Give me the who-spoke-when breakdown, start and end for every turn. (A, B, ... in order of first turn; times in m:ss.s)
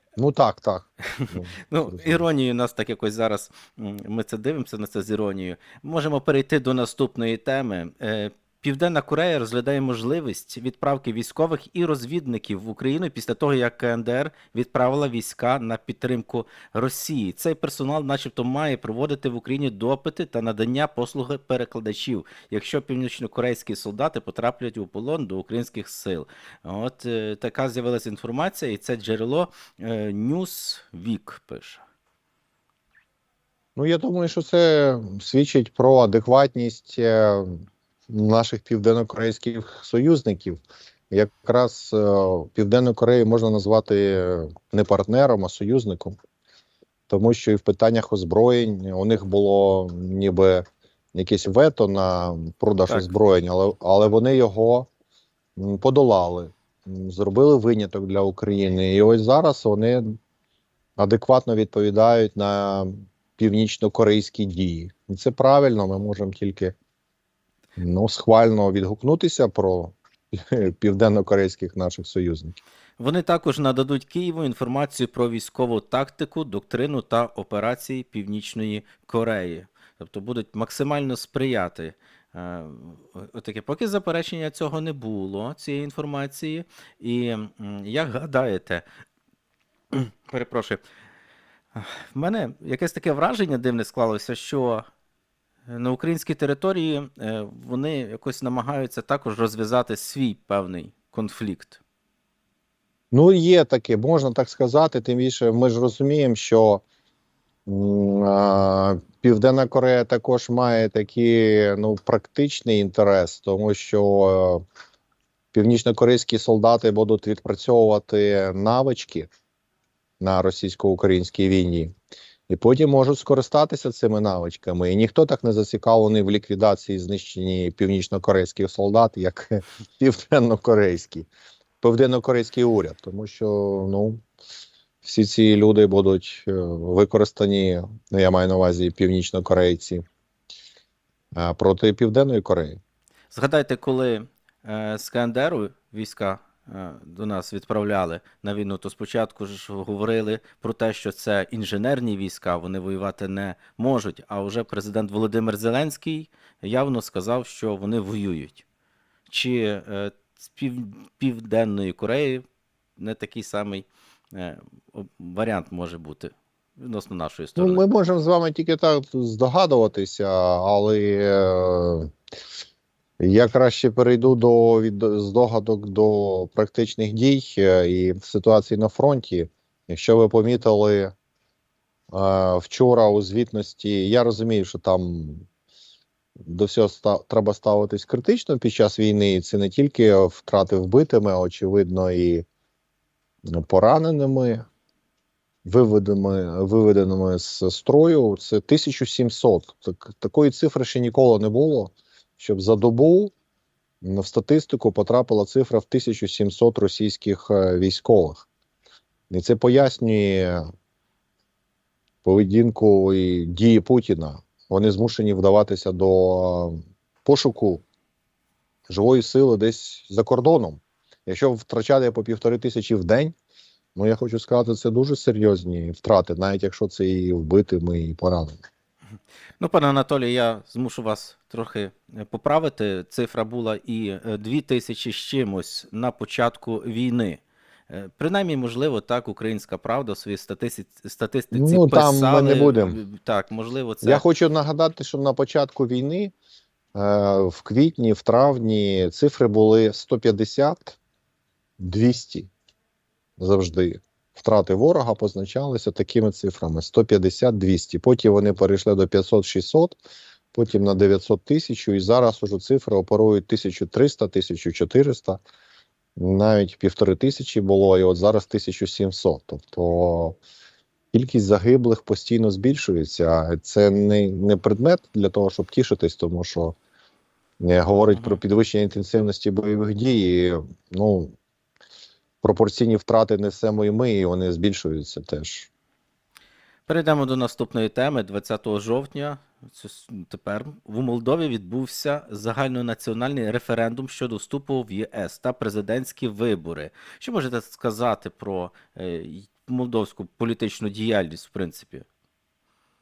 0:00.2-0:02.2 A
0:01.2-0:31.8 B
0:33.8-0:37.6 A
0:38.1-0:46.2 A
0:47.1-0:54.9 A
0:52.9-0:53.1 B
0:55.6-1:00.2 A
1:01.0-1:06.7 A
1:07.8-1:12.6 A
1:13.0-1:28.8 B
1:29.9-1:30.8 B
1:31.7-1:34.8 B
1:35.7-1:41.8 B
1:43.1-1:46.8 A
1:47.6-1:54.6 A
1:55.5-1:59.3 A
2:00.2-2:01.9 A
2:02.5-2:11.3 A
2:11.8-2:14.2 A
2:15.0-2:20.0 A
2:21.3-2:22.8 A
2:23.3-2:38.6 B
2:39.3-2:42.4 B
2:43.0-2:47.8 B
2:47.6-2:52.1 A
2:53.2-3:01.1 A
3:02.1-3:05.5 A
3:06.4-3:12.4 A
3:13.5-3:14.6 A
3:15.6-3:23.3 A
3:24.0-3:28.5 A
3:29.3-3:30.7 A
3:32.2-3:37.8 A
3:38.9-3:43.3 A
3:44.0-3:48.6 A
3:49.6-4:04.2 B
4:01.5-4:03.0 A
4:04.0-4:06.3 A
4:06.9-4:11.0 A
4:11.8-4:12.5 A
4:13.4-4:20.0 A
4:20.5-4:25.4 A
4:26.2-4:30.4 A
4:31.1-4:36.8 A
4:37.6-4:41.3 A
4:38.1-4:38.4 B
4:42.4-4:45.7 A
4:46.9-5:02.0 B